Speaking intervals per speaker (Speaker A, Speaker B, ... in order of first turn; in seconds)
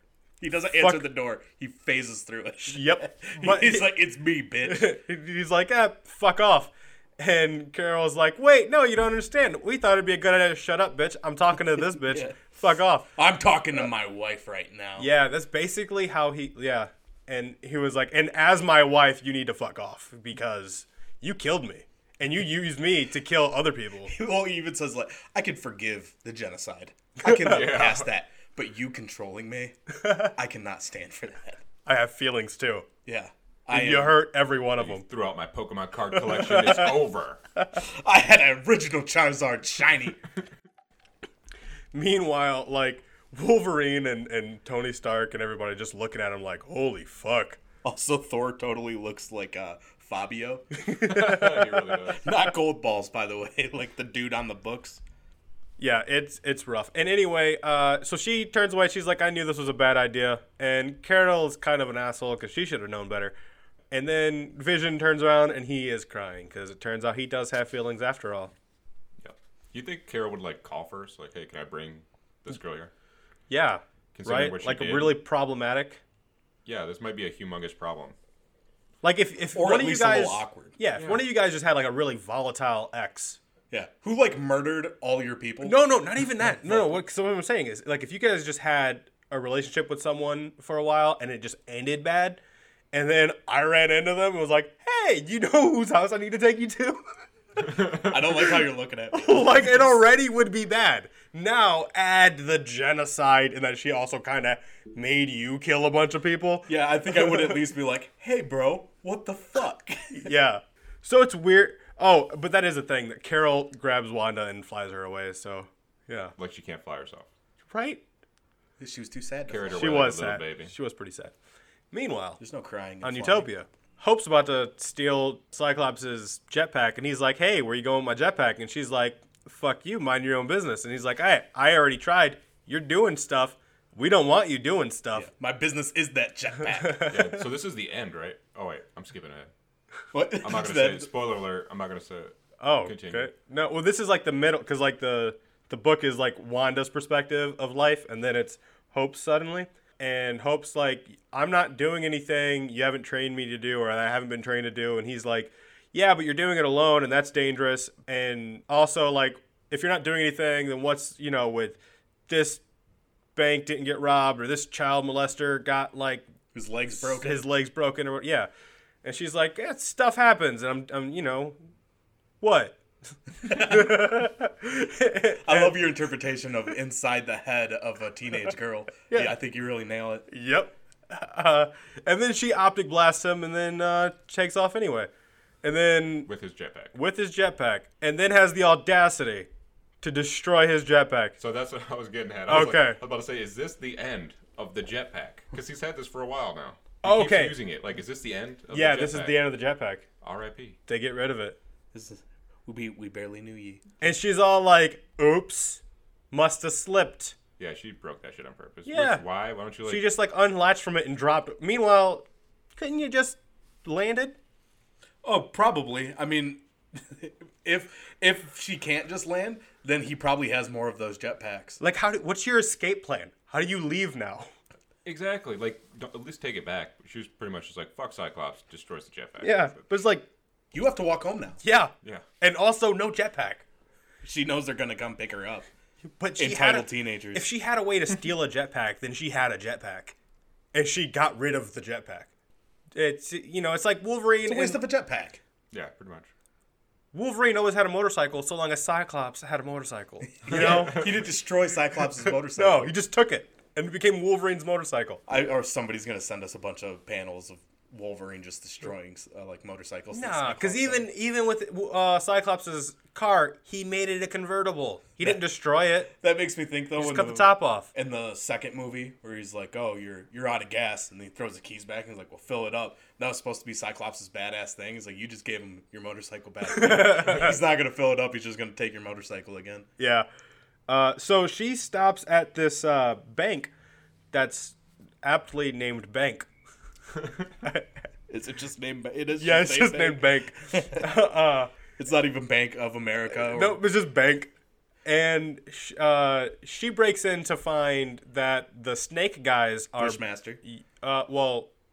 Speaker A: 0.4-5.0, 12.1-12.4, 13.2-15.1, 24.1-29.8, 30.3-31.6, 33.0-34.2, 37.7-40.2, 47.8-50.7, 52.2-55.0, 79.5-80.8, 83.7-85.8, 86.4-86.9, 97.8-99.9, 106.7-110.3, 118.8-120.0, 122.4-123.5, 135.1-137.1, 140.1-141.1, 166.5-167.4, 173.4-174.2, 175.4-180.3, 201.9-203.8, 215.2-221.8, 230.7-231.6, 234.2-235.7, 236.4-237.5, 244.4-245.4, 250.4-252.9, 255.3-261.1, 266.1-279.9, 288.3-291.1, 292.0-293.8, 300.0-300.6
Speaker B: 0.8-1.0, 2.6-3.9, 4.6-13.1, 15.0-24.1, 30.0-30.3, 31.8-32.9, 33.7-35.0, 41.9-47.6, 50.8-51.9, 55.8-63.3, 63.9-68.5, 73.5-76.0, 79.0-83.4, 85.6-92.4, 92.9-97.2, 99.1-107.6, 110.1-116.3, 117.7-118.0, 119.7-121.3, 121.9-122.4, 123.0-135.3, 142.6-162.6, 163.3-166.3, 166.9-168.5, 169.0-171.6, 172.4-172.8, 173.4-175.8, 179.1-179.3, 180.3-185.1, 185.6-186.3, 186.9-189.5, 190.0-191.3, 192.5-193.0, 197.0-197.6, 198.7-200.0, 200.9-201.6, 204.0-205.8, 206.3-207.4, 208.8-209.2, 209.8-212.2, 212.8-214.4, 221.8-224.5, 229.4-230.2, 231.6-233.6, 236.2-240.1, 240.7-242.3, 242.9-244.8, 247.1-251.0, 252.6-255.2, 260.1-266.1, 267.0-267.9, 276.7-277.5, 280.0-280.3, 280.9-283.7, 284.3-286.5, 289.4-291.7, 293.4-294.5, 295.0-301.7
Speaker C: 27.3-28.1, 34.8-37.4, 51.1-52.3, 69.2-72.9, 74.1-75.2, 76.6-78.2, 81.0-81.2, 116.4-117.3, 119.5-120.7, 137.1-139.5, 140.4-143.3, 186.2-186.9, 191.4-199.4, 200.2-200.8, 207.6-210.1, 225.0-229.8, 245.7-246.3, 250.5-251.2